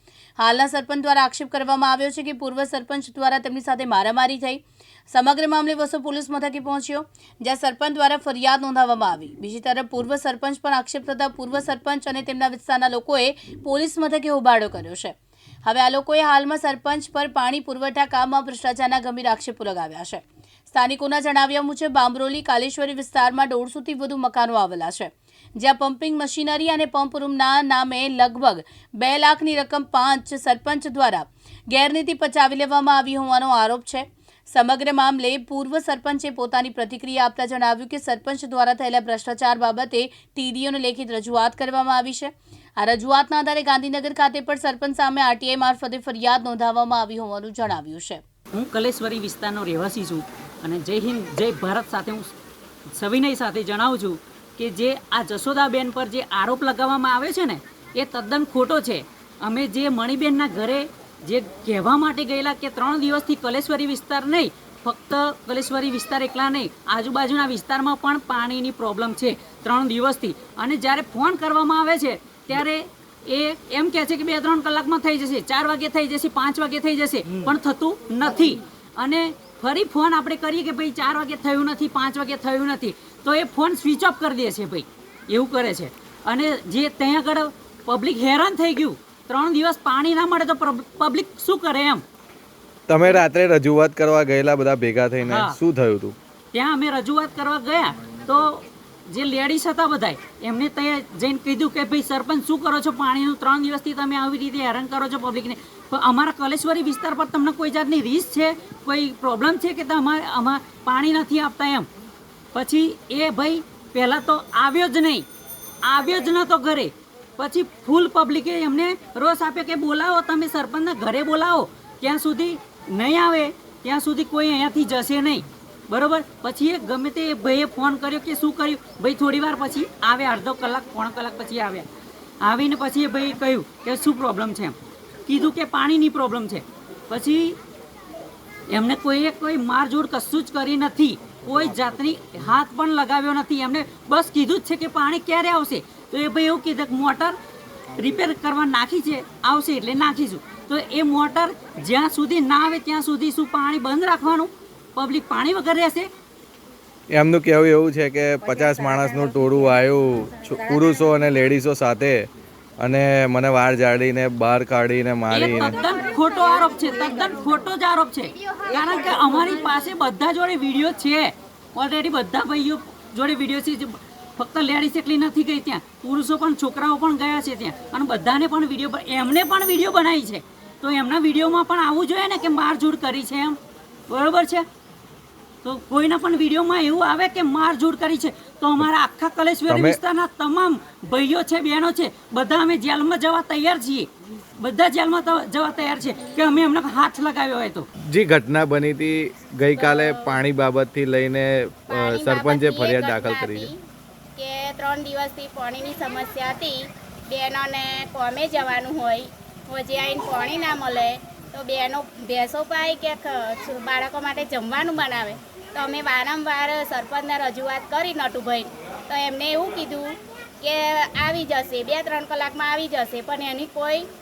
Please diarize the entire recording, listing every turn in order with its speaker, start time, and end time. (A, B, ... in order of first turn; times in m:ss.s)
0:00.4-0:15.1 A
0:15.6-0:48.2 A
0:48.5-0:52.3 B
0:52.9-1:32.0 B
1:32.9-1:36.2 C
1:35.2-1:35.6 B
1:36.5-1:51.9 B
1:52.5-1:55.3 B
1:55.8-2:11.9 B
2:12.4-2:14.8 B
2:15.3-2:17.6 B
2:18.7-2:27.4 B
2:28.0-2:36.1 B
2:37.1-2:42.3 C
2:42.8-2:45.8 C
2:45.3-3:03.6 B
3:04.1-3:04.7 B
3:05.6-3:14.1 B
3:09.7-3:10.0 C
3:14.6-3:17.9 B
3:18.0-3:23.7 C
3:19.8-3:20.4 D
3:21.9-3:23.8 D
3:24.4-3:44.1 D